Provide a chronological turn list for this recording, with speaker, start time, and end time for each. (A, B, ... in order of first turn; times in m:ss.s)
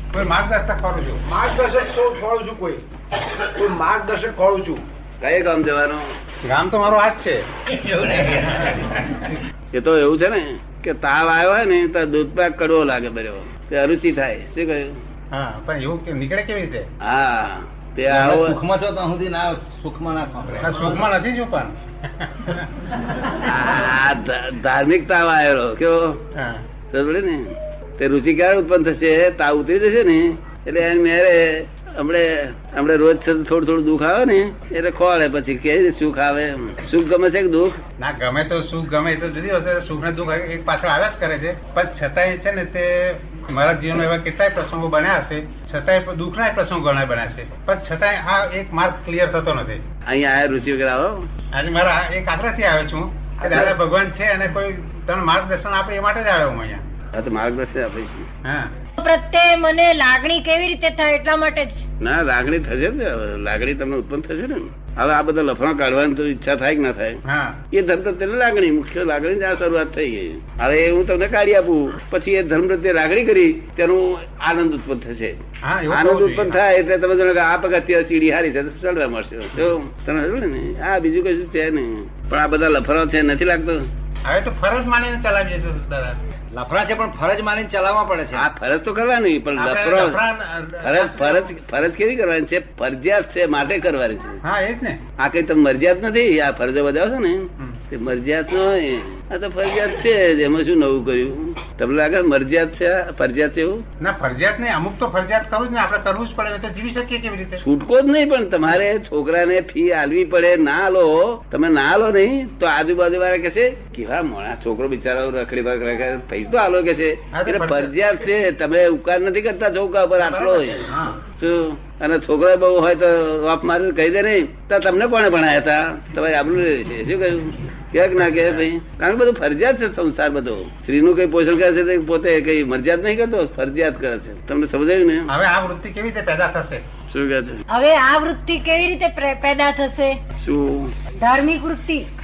0:00.1-0:01.2 A
0:01.3-0:02.8 B
0:03.4-0:04.8 B
0:05.2-0:06.1 C
0:06.4-0:07.4 A
0:07.8-0:09.2 C
0:09.7-0:15.0 C
0:15.3-0:16.9 A
0:17.0-0:18.6 C
0:18.1-0:20.6 D
0:20.5-0:22.7 A
0:23.2-0:26.2 C
0:26.3-0:26.6 A
0:26.9-0:37.8 C
0:38.0-0:49.8 A
0:50.1-0:51.3 C
0:51.5-0:56.8 A
0:57.1-0:58.3 C
0:58.4-0:58.7 A
0:59.0-1:01.8 E
1:02.0-1:07.2 C
1:07.2-1:07.6 A
1:07.7-1:23.9 C
1:15.6-1:16.6 A
1:24.2-1:26.2 A
1:26.5-1:28.5 D
1:28.3-1:30.2 C
1:29.6-1:31.5 A
1:30.8-1:34.4 C
1:34.4-1:35.0 A
1:35.2-1:43.8 C
1:44.0-1:47.6 A
1:47.6-2:15.3 C
1:57.3-1:57.9 A
2:00.2-2:01.2 A
2:15.3-2:16.8 A
2:17.1-2:17.6 C
2:17.7-2:20.2 E
2:20.4-2:20.9 C
2:21.2-2:22.0 E